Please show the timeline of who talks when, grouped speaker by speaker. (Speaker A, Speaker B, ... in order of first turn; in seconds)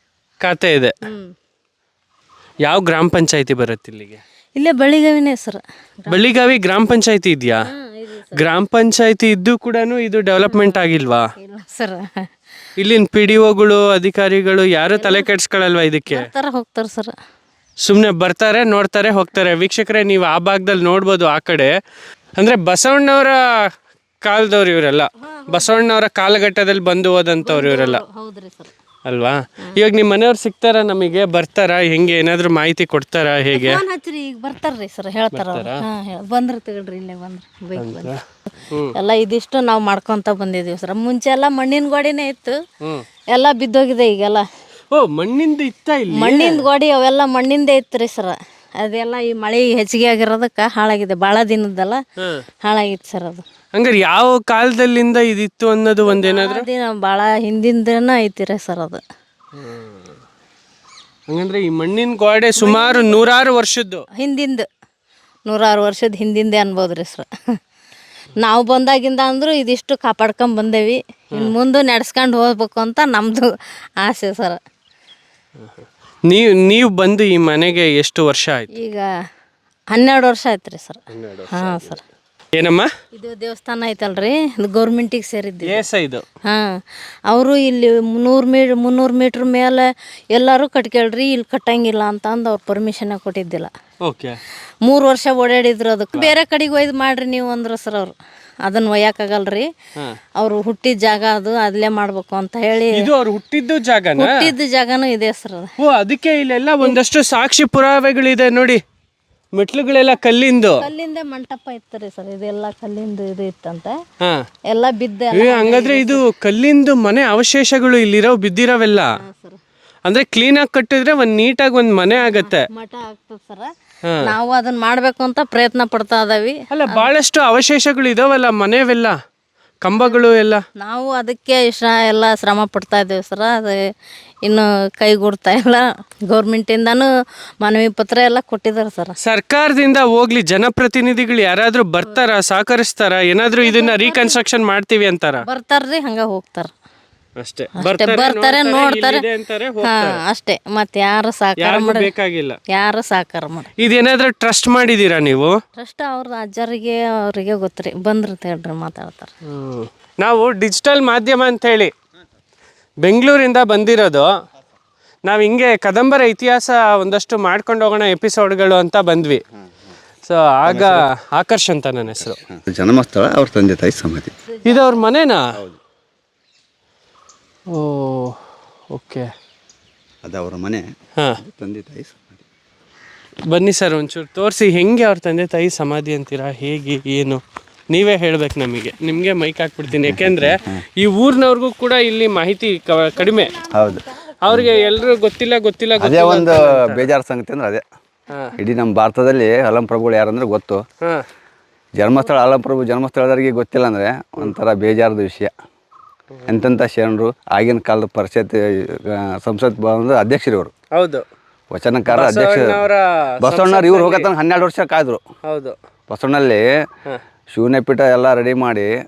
Speaker A: 0.4-1.0, 2.6-4.2, 6.1-7.6, 8.3-11.2, 12.8-16.3, 17.9-21.7, 22.4-23.7, 24.2-28.0, 29.1-33.8, 35.3-35.8, 37.8-38.2, 44.9-46.7, 53.8-56.6, 59.6-60.0, 61.3-64.0, 75.6-78.7, 81.1-82.0, 82.6-82.9, 85.7-86.2, 94.0-94.4, 103.0-104.3, 105.8-108.8, 109.5-110.8, 115.3-119.1, 120.1-122.7, 126.7-129.2, 129.8-130.6, 139.2-145.4, 147.4-150.2, 151.6-152.6, 153.8-155.6, 159.5-161.9, 163.0-164.3, 165.3-169.4, 170.2-172.4, 174.7-175.4, 177.7-178.4, 178.9-179.3, 183.5-187.4, 187.9-193.6, 194.4-197.1, 206.3-206.7, 210.9-211.2, 212.1-214.3, 215.5-215.8
Speaker B: 1.0-1.3, 4.6-6.2, 7.7-8.4, 10.4-10.8, 11.4-12.3, 14.9-15.3, 16.1-17.1, 25.2-25.8, 27.4-28.7, 33.5-38.1, 38.9-42.6, 43.3-44.5, 46.1-52.0, 52.6-53.4, 56.0-59.0, 62.6-63.2, 64.2-64.7, 65.5-67.3, 68.4-73.5, 74.0-74.6, 78.7-79.1, 79.9-81.0, 81.5-82.0, 83.1-85.8, 86.5-93.7, 94.9-98.1, 98.7-99.7, 100.4-103.1, 104.2-105.7, 110.8-114.0, 114.7-116.2, 119.2-119.6, 122.2-123.7, 124.2-127.1, 130.8-133.8, 134.4-137.1, 137.6-139.2, 143.6-144.4, 145.4-146.7, 147.8-149.2, 149.8-152.1, 152.7-153.7, 155.8-159.3, 193.6-194.1
Speaker C: 170.7-171.1, 172.2-174.3, 180.2-180.9, 181.4-182.4, 190.0-190.8, 193.7-194.7, 196.0-197.8, 198.6-200.8, 202.0-205.5, 206.5-210.7, 211.7-212.8, 213.4-215.2, 216.1-216.7, 217.5-218.9